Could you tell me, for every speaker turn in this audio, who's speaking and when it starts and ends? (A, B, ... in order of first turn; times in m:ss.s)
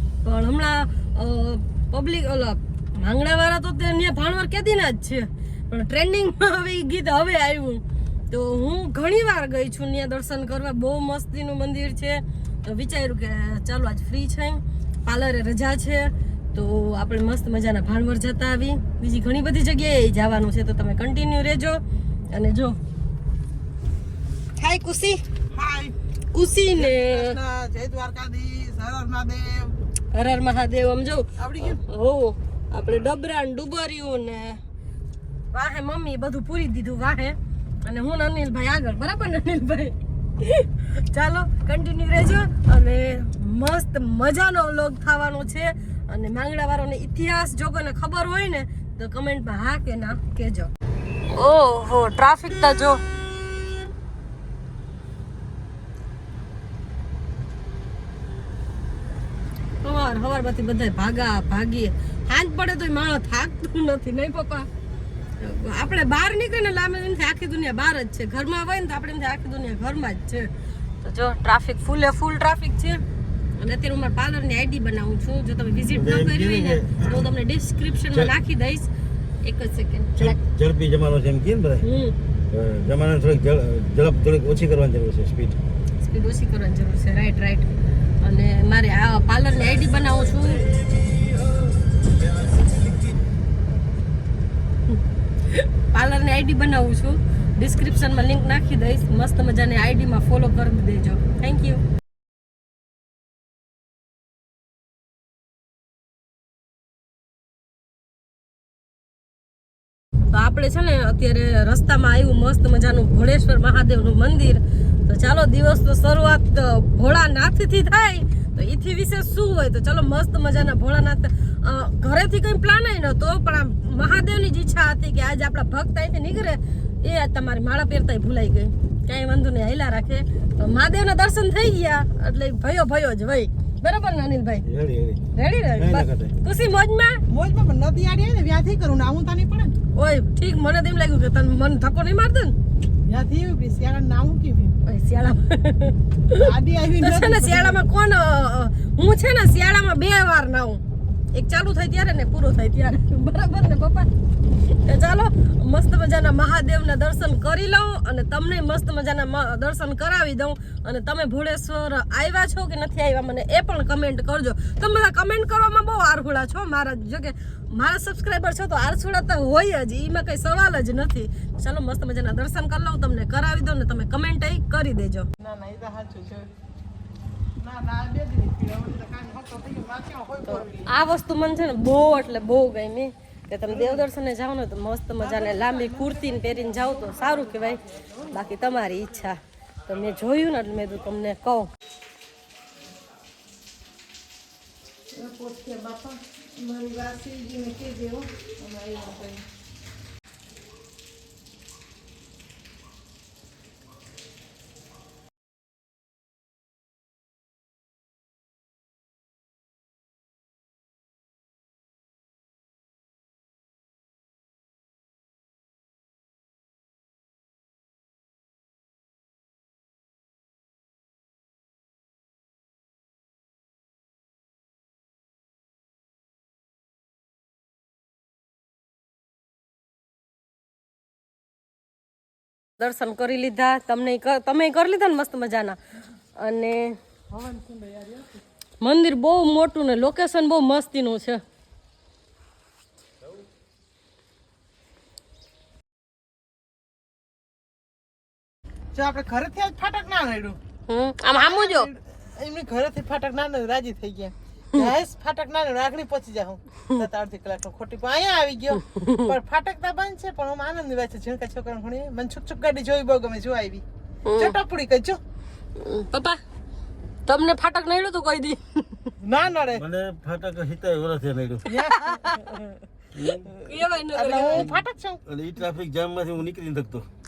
0:00.2-0:22.8 A
0:24.6-0:25.2 A
0:25.5-0:26.0 B
0:26.3-0:27.4 A
0:26.8-0:29.9 B
0:30.1-0:34.6 A
0:31.4-0:31.8 B
0:35.5-0:50.7 A
0:51.3-0:53.0 A
0:59.8-1:04.7 A
1:05.4-1:13.0 A
1:13.6-1:18.9 A
1:15.9-1:17.3 C
1:19.4-1:20.4 A
1:20.2-1:21.8 C
1:21.8-1:22.2 A
1:22.5-1:25.6 C
1:26.0-1:27.7 A
1:28.2-1:30.7 A
1:35.5-1:41.8 A
1:50.3-2:14.6 A
2:14.6-2:16.3 C
2:15.3-2:17.2 A
2:17.3-2:19.7 B
2:19.9-2:22.6 A
2:23.1-2:24.8 B
2:24.8-2:30.8 A
2:26.4-2:27.8 B
2:31.3-2:34.1 A
2:34.7-2:55.3 A
2:55.4-2:56.5 B
2:57.6-3:00.9 B
3:00.5-3:11.7 A
3:03.7-3:04.1 B
3:05.2-3:08.3 B
3:15.1-3:19.5 B
3:52.8-3:55.8 A
3:56.4-3:57.0 A
3:57.3-3:58.4 B
3:58.8-4:01.4 A
4:08.9-4:10.6 B
4:10.9-4:11.9 A
4:11.4-4:23.8 B
4:18.9-4:19.3 A
4:24.2-4:24.6 A
4:24.4-4:25.2 B
4:25.8-4:26.4 A
4:27.3-4:29.1 A
4:29.2-4:29.8 B
4:29.7-4:31.7 C
4:31.7-4:32.6 B
4:32.0-4:32.5 A
4:33.2-4:33.5 C
4:33.4-4:34.7 A
4:34.1-4:35.2 B
4:35.3-4:37.1 C